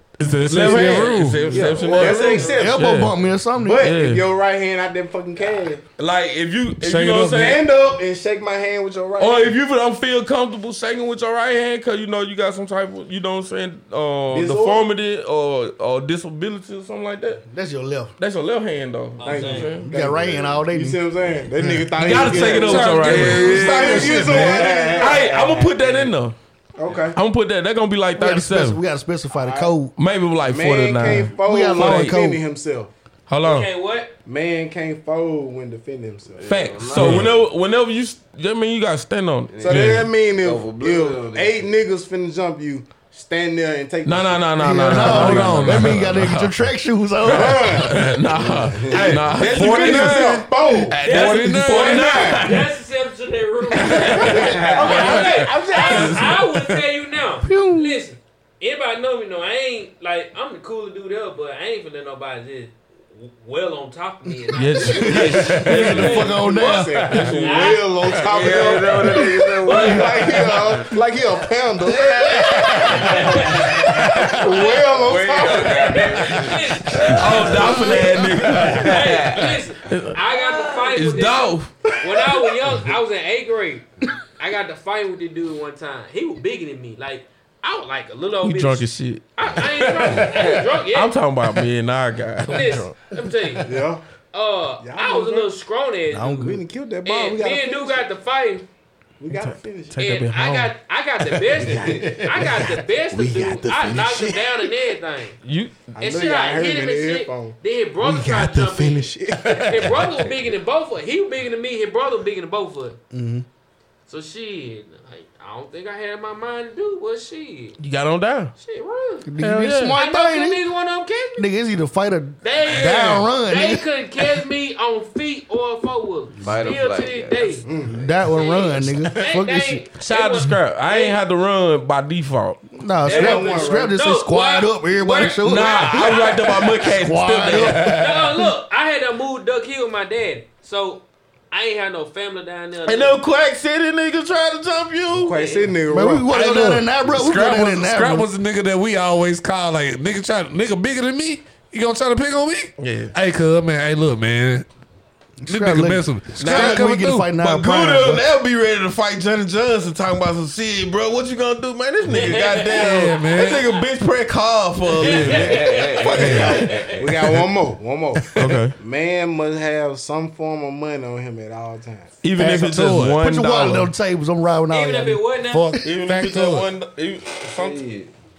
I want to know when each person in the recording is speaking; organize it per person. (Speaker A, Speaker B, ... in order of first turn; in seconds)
Speaker A: 0.2-1.6, 6.8-7.6, 22.1-24.3, 37.0-37.3, 44.9-46.1, 51.0-52.2, 72.8-73.2, 74.0-74.3, 90.0-90.5, 146.3-154.7, 155.5-157.3, 162.7-163.7, 166.1-166.6, 172.4-173.2, 175.5-176.7
Speaker B: 0.5-3.2, 3.8-4.2, 6.0-7.6, 9.2-17.4, 18.2-19.9, 21.9-26.4, 27.1-28.8, 30.0-32.2, 33.3-33.7, 36.5-40.1, 44.0-46.6, 47.2-52.7, 53.7-56.5, 64.5-67.7, 77.2-79.2, 79.9-80.2, 80.9-81.7, 88.4-89.2, 90.3-93.0, 99.3-100.7, 105.4-105.8, 117.8-118.5, 119.4-120.0, 130.0-132.6, 135.2-138.0, 142.9-145.4, 152.8-153.1, 156.4-167.4, 168.3-168.8, 172.2-173.9, 175.8-177.9
Speaker C: 0.6-2.9, 3.6-5.8, 7.3-9.5, 14.3-14.9, 19.2-25.4, 26.8-27.2, 29.4-29.8, 30.4-32.9, 34.3-36.5, 39.6-45.4, 47.2-48.0, 48.9-51.0, 51.7-52.6, 54.2-56.3, 66.1-73.3, 74.3-76.2, 93.7-94.0, 94.8-95.5, 96.3-98.1, 99.2-100.0, 101.6-104.7, 105.9-110.2, 127.6-128.1, 133.0-133.9, 145.1-146.7, 166.1-172.1
Speaker D: 1.5-2.6, 19.2-19.7, 22.5-23.7, 33.4-34.1, 49.6-50.1, 51.0-66.4, 67.3-70.3, 72.3-83.8, 84.4-91.2, 92.5-93.7, 94.3-96.5, 97.0-98.7, 100.0-105.4, 106.0-113.0, 114.1-117.8, 118.6-119.3, 119.9-121.5, 122.4-127.7, 128.3-131.2, 133.1-136.8, 137.8-143.2, 145.3-145.7, 162.1-163.5, 165.0-167.0, 174.7-175.7
Speaker E: 2.6-3.9, 17.5-18.1, 19.8-21.0, 24.3-24.6, 28.2-29.9, 31.3-32.4, 44.6-47.8, 57.5-58.0, 64.8-67.2, 96.1-96.6, 113.1-113.5, 119.2-120.6, 121.4-124.3, 127.9-129.8, 132.7-138.2, 145.9-148.3, 155.4-158.3, 172.9-175.9
Speaker F: 24.6-26.1, 36.4-37.3, 39.5-41.7, 48.2-49.4, 68.1-70.5, 71.8-79.5, 80.4-80.9, 126.4-128.1, 165.0-167.0, 177.5-178.1